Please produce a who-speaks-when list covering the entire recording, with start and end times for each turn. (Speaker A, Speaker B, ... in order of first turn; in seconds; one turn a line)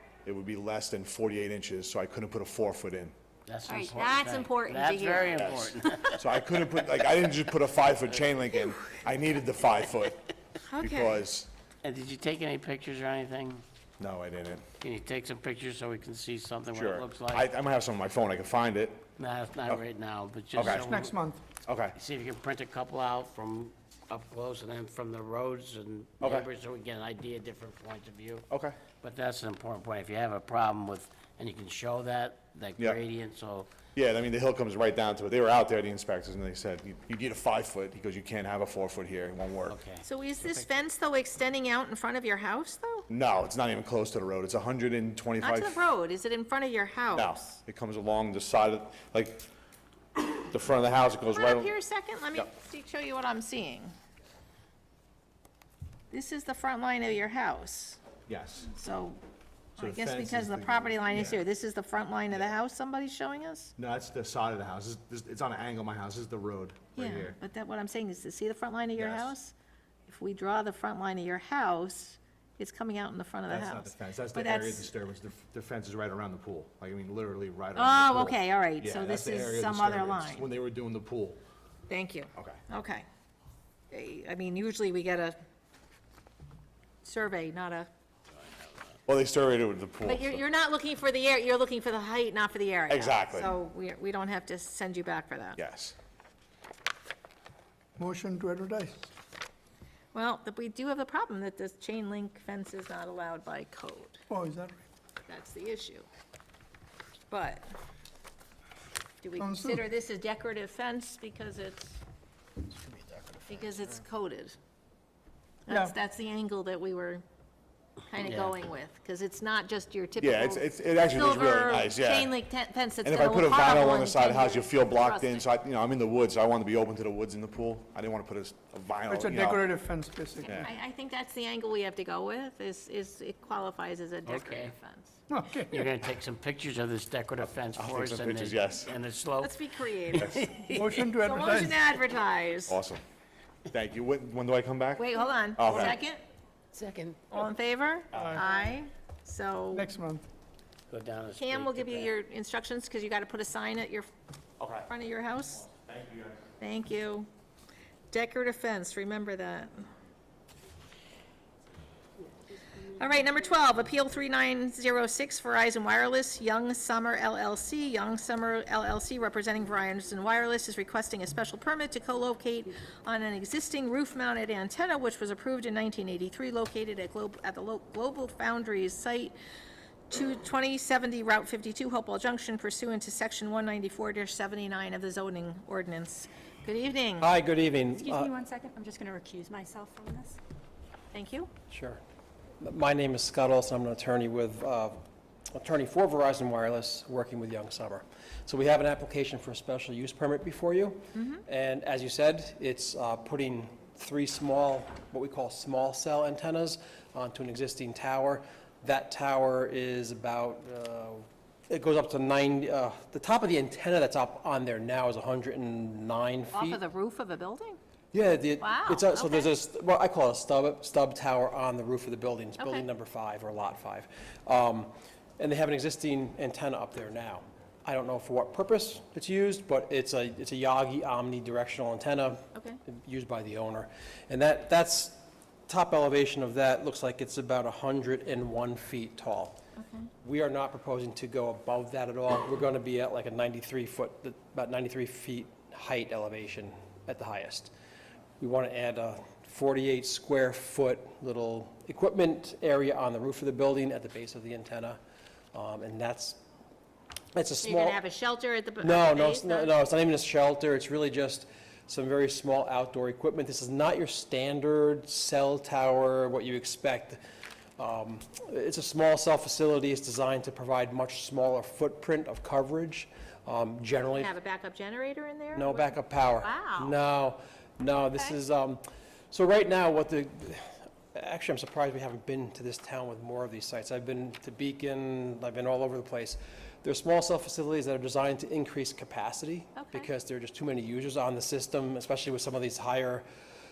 Speaker A: 0.2-3.1
Speaker B: 3.5-6.2
Speaker C: 3.7-6.2
Speaker A: 5.3-11.5
Speaker C: 10.6-11.2
Speaker B: 11.8-13.6
Speaker A: 14.0-14.7
Speaker B: 14.8-17.5
Speaker A: 16.7-19.1
Speaker B: 19.2-21.2
Speaker A: 20.6-20.9
Speaker D: 20.6-21.4
Speaker A: 21.7-21.9
Speaker B: 21.9-28.5
Speaker A: 26.2-26.5
Speaker A: 28.5-28.8
Speaker B: 29.0-33.7
Speaker A: 34.0-39.8
Speaker B: 39.7-40.7
Speaker C: 40.0-43.1
Speaker A: 43.1-45.8
Speaker C: 45.4-47.6
Speaker A: 47.1-49.5
Speaker A: 50.4-51.7
Speaker C: 51.3-53.9
Speaker C: 56.1-58.0
Speaker A: 58.3-58.7
Speaker C: 58.7-59.2
Speaker C: 59.8-63.7
Speaker A: 59.8-61.4
Speaker A: 63.8-67.3
Speaker C: 67.0-69.5
Speaker A: 69.0-69.3
Speaker C: 70.1-74.9
Speaker A: 73.5-81.4
Speaker C: 77.8-80.5
Speaker C: 81.9-83.1
Speaker C: 83.9-85.4
Speaker C: 87.0-87.9
Speaker B: 88.4-88.9
Speaker A: 89.1-90.4
Speaker C: 90.0-95.6
Speaker A: 92.9-93.5
Speaker A: 95.6-96.0
Speaker D: 98.0-99.1
Speaker C: 100.1-104.2
Speaker D: 104.3-104.8
Speaker C: 105.3-106.1
Speaker C: 107.3-107.7
Speaker C: 109.2-112.0
Speaker D: 109.4-109.8
Speaker C: 113.4-114.6
Speaker C: 115.7-117.2
Speaker D: 115.7-116.0
Speaker C: 118.1-125.4
Speaker B: 118.2-118.5
Speaker A: 120.2-122.3
Speaker A: 123.0-129.7
Speaker D: 129.1-130.5
Speaker C: 130.5-135.2
Speaker B: 134.3-134.7
Speaker D: 135.3-135.8
Speaker B: 135.7-141.0
Speaker A: 137.8-138.9
Speaker C: 139.4-140.3
Speaker A: 140.2-140.5
Speaker D: 140.7-141.8
Speaker C: 141.2-142.8
Speaker A: 142.7-143.0
Speaker A: 143.7-146.0
Speaker C: 145.0-146.2
Speaker B: 146.7-147.3
Speaker C: 147.3-149.9
Speaker D: 148.1-148.4
Speaker D: 149.7-150.2
Speaker B: 150.9-152.1
Speaker C: 151.3-154.1
Speaker A: 154.6-154.9
Speaker C: 154.9-155.7
Speaker A: 155.8-156.3
Speaker C: 156.6-157.3
Speaker C: 158.1-159.9
Speaker C: 162.9-179.4
Speaker C: 180.1-187.3
Speaker E: 187.2-188.3
Speaker F: 188.0-190.4
Speaker C: 191.1-191.5
Speaker E: 191.7-192.0
Speaker E: 192.6-216.8
Speaker C: 201.2-201.4
Speaker C: 216.5-217.8
Speaker E: 218.1-239.6
Speaker C: 218.6-219.5
Speaker C: 222.6-222.8
Speaker C: 239.8-240.1
Speaker E: 240.2-247.7
Speaker E: 248.4-255.0
Speaker E: 255.5-256.4
Speaker E: 257.3-258.0
Speaker C: 257.6-259.7
Speaker E: 258.8-267.2
Speaker E: 267.8-274.4
Speaker C: 274.2-276.9
Speaker E: 275.6-293.2
Speaker C: 289.8-290.1